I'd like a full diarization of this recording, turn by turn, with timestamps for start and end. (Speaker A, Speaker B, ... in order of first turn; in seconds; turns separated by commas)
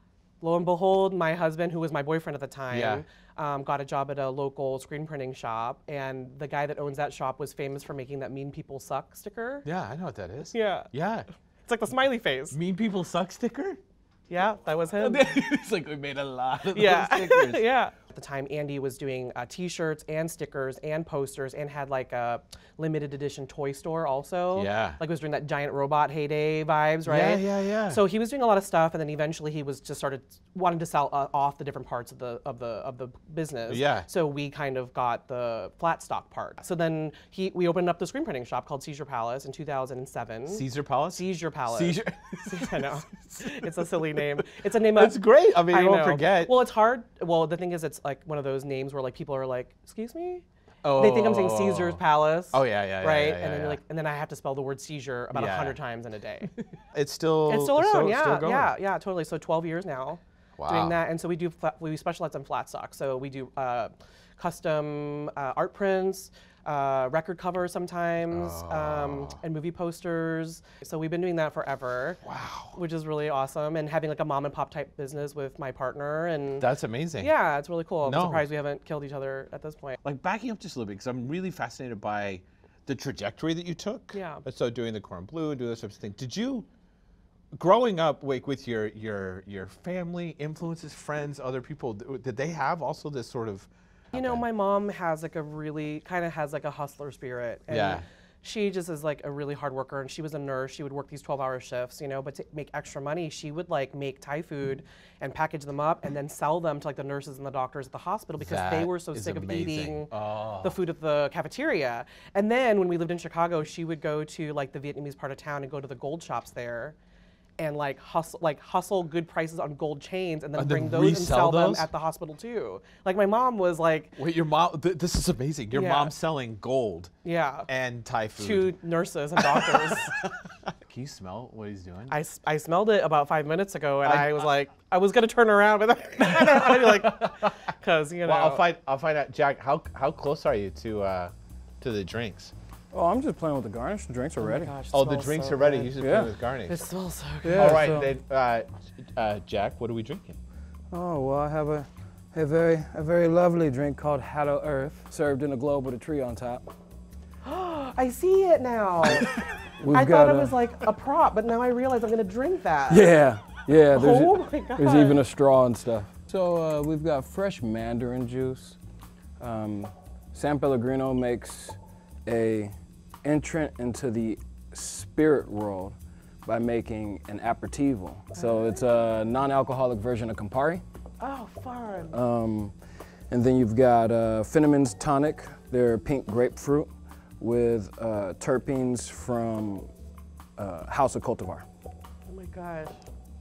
Speaker A: 0.4-9.7, Speaker B: 2.7-3.0, Speaker B: 9.6-11.2, Speaker A: 10.5-10.9, Speaker A: 11.7-12.6, Speaker B: 12.5-13.8, Speaker A: 14.3-15.4, Speaker B: 15.0-17.6, Speaker A: 16.7-40.6, Speaker B: 24.5-25.0, Speaker B: 27.1-28.0, Speaker B: 33.7-34.1, Speaker B: 40.5-43.9, Speaker A: 41.1-56.5, Speaker B: 44.9-46.5, Speaker B: 50.8-53.8, Speaker B: 55.3-55.8, Speaker B: 56.5-58.7, Speaker A: 57.5-72.2, Speaker B: 60.6-61.0, Speaker B: 68.3-69.4, Speaker B: 72.2-72.8, Speaker A: 72.7-76.7, Speaker B: 76.6-77.3, Speaker A: 77.2-80.0, Speaker B: 78.0-78.4, Speaker B: 80.0-86.7, Speaker A: 84.1-84.4, Speaker B: 87.5-94.4, Speaker A: 94.1-110.1, Speaker B: 97.7-98.0, Speaker B: 108.4-110.8, Speaker A: 110.6-117.0, Speaker A: 117.6-124.1, Speaker B: 120.6-121.9, Speaker B: 124.2-127.1, Speaker A: 125.7-126.1, Speaker A: 127.2-127.7, Speaker B: 127.7-128.7, Speaker A: 128.4-130.1, Speaker B: 129.4-132.1, Speaker A: 132.1-138.7, Speaker B: 134.0-134.5, Speaker B: 136.2-137.6, Speaker B: 138.2-142.5, Speaker C: 142.9-144.7, Speaker A: 144.4-145.9, Speaker B: 144.9-146.8, Speaker C: 146.0-146.3, Speaker A: 146.7-147.9, Speaker C: 147.4-148.1, Speaker B: 147.5-150.4, Speaker C: 150.9-156.7, Speaker A: 157.4-159.3, Speaker C: 159.8-160.6, Speaker A: 159.9-163.1, Speaker C: 162.9-168.8, Speaker A: 163.9-165.2, Speaker C: 169.4-180.8, Speaker A: 178.3-178.7, Speaker A: 181.2-182.2, Speaker C: 182.1-182.8, Speaker C: 183.3-189.9, Speaker C: 190.6-191.6, Speaker A: 192.3-193.0